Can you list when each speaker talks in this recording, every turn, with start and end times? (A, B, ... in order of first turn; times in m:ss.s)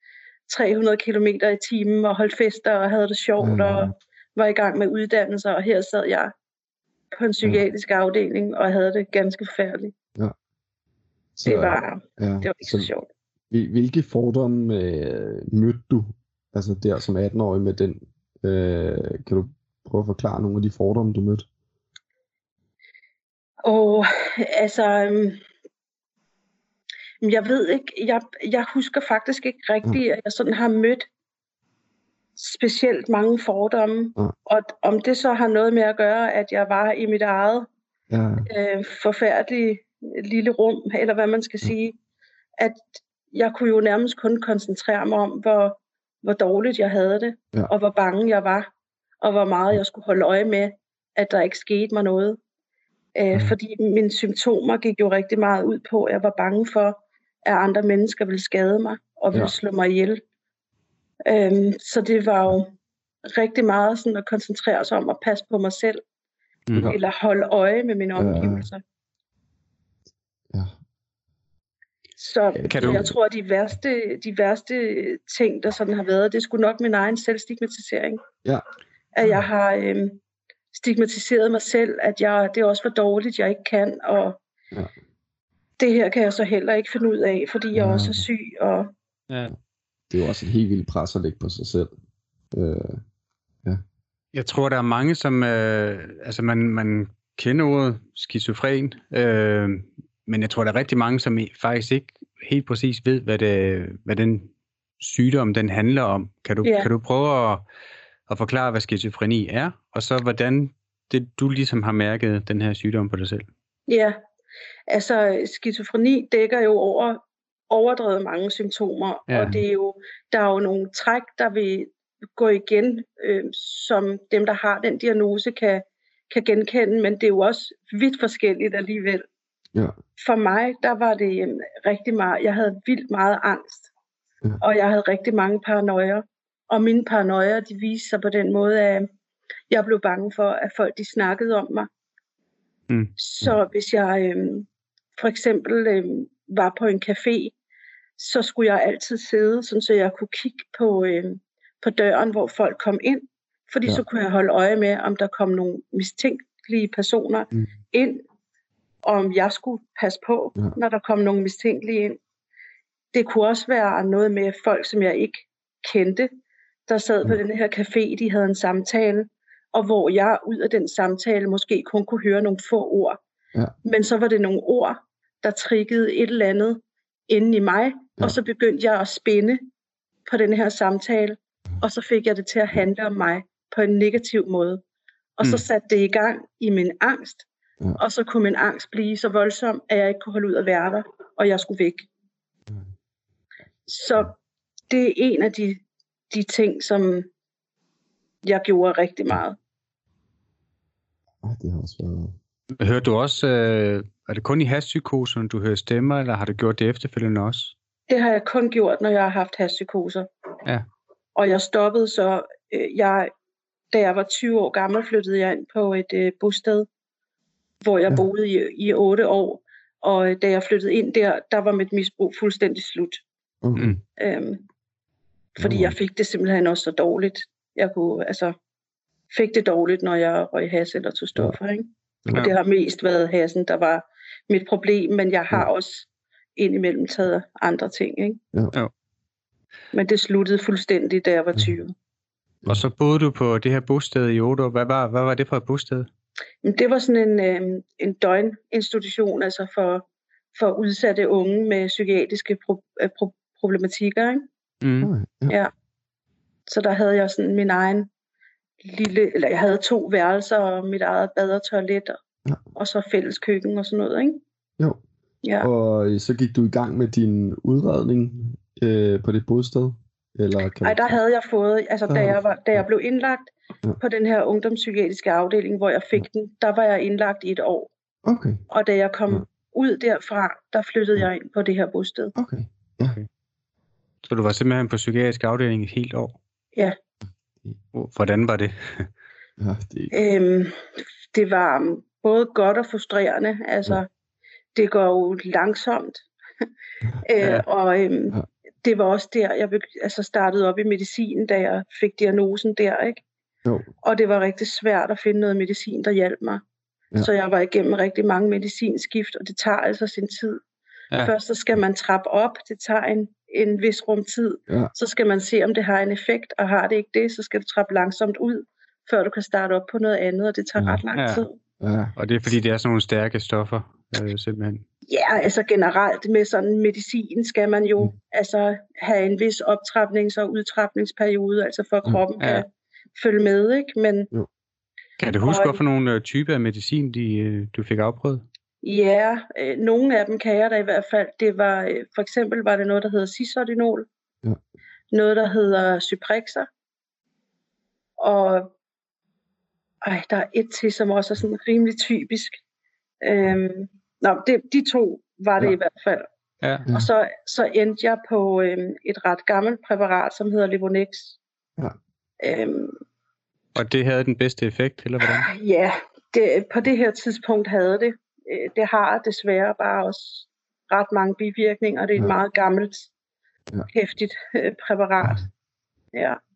0:00.5-0:06.3 A
0:03.4-0:03.9 B
0:07.2-0:09.9 A
0:11.4-0:12.9 B
0:11.5-0:13.1 A
0:13.5-0:21.5 B
0:23.6-0:25.4 A
0:27.2-0:31.1 A
0:32.4-0:37.7 A
0:38.1-0:38.5 B
0:38.4-0:42.0 A
0:42.6-0:48.7 A
0:49.2-0:52.4 A
0:53.2-1:00.2 A
1:01.3-1:02.7 A
1:03.3-1:06.0 A
1:06.7-1:06.9 C
1:06.8-1:08.8 A
1:08.2-1:08.7 B
1:12.2-1:18.2 A
1:12.6-1:13.2 B
1:12.7-1:13.1 C
1:19.2-1:20.2 A
1:20.7-1:24.4 A
1:25.8-1:28.9 A
1:27.7-1:28.3 B
1:29.3-1:29.5 C
1:30.1-1:31.9 B
1:32.5-1:33.0 B
1:34.3-1:47.6 C
1:46.6-1:46.9 A
1:48.3-1:53.5 C
1:53.9-1:54.2 A
1:54.9-2:09.2 A
1:59.3-1:59.6 C
2:10.2-2:13.9 A
2:14.6-2:19.1 A
2:19.7-2:21.9 A
2:23.2-2:27.6 A
2:28.2-2:38.2 A
2:39.0-2:42.2 A
2:43.1-2:46.3 A
2:46.9-2:53.2 A
2:53.8-2:59.6 A
3:00.3-3:04.8 A
3:05.4-3:07.5 A
3:08.0-3:12.1 A
3:13.9-3:14.4 A
3:14.9-3:17.3 A
3:18.4-3:19.6 A
3:21.4-3:22.4 B
3:22.8-3:27.8 C
3:28.1-3:30.3 A
3:31.4-3:33.3 A
3:33.9-3:36.9 A
3:37.8-3:43.2 A
3:43.6-3:44.0 B
3:44.2-3:44.6 A
3:45.6-3:46.0 B
3:45.6-3:48.6 A
3:49.3-3:58.4 A
3:59.9-4:01.9 A
4:02.7-4:06.1 C
4:06.6-4:14.4 A
4:14.8-4:15.1 C
4:15.0-4:15.6 B
4:16.7-4:18.1 A
4:18.8-4:22.2 A
4:22.8-4:24.4 A
4:25.4-4:25.7 A
4:25.6-4:31.2 B
4:30.8-4:37.9 A
4:32.1-4:32.8 B
4:38.2-4:38.6 B
4:38.7-4:42.3 A
4:42.4-4:43.2 B
4:44.2-4:46.4 C
4:47.9-4:49.1 C
4:49.6-4:50.2 B
4:50.1-4:54.1 A
4:54.8-4:56.3 A
4:57.2-5:03.2 A
5:04.0-5:06.6 A
5:07.2-5:10.6 A
5:11.2-5:21.6 A
5:20.8-5:21.0 B
5:21.1-5:21.4 C
5:21.8-5:22.1 B
5:22.2-5:24.8 C
5:25.1-5:34.3 A
5:32.4-5:32.6 C
5:35.2-5:38.4 C
5:35.3-5:35.8 A
5:38.8-5:44.1 A
5:45.1-5:46.7 A
5:48.2-5:48.7 A
5:50.0-5:52.6 A
5:53.2-5:56.3 A
5:56.6-5:56.9 C
5:56.9-6:01.4 A
6:02.4-6:03.0 A
6:03.8-6:05.5 C
6:05.2-6:13.1 A
6:13.9-6:15.4 A
6:16.1-6:16.4 A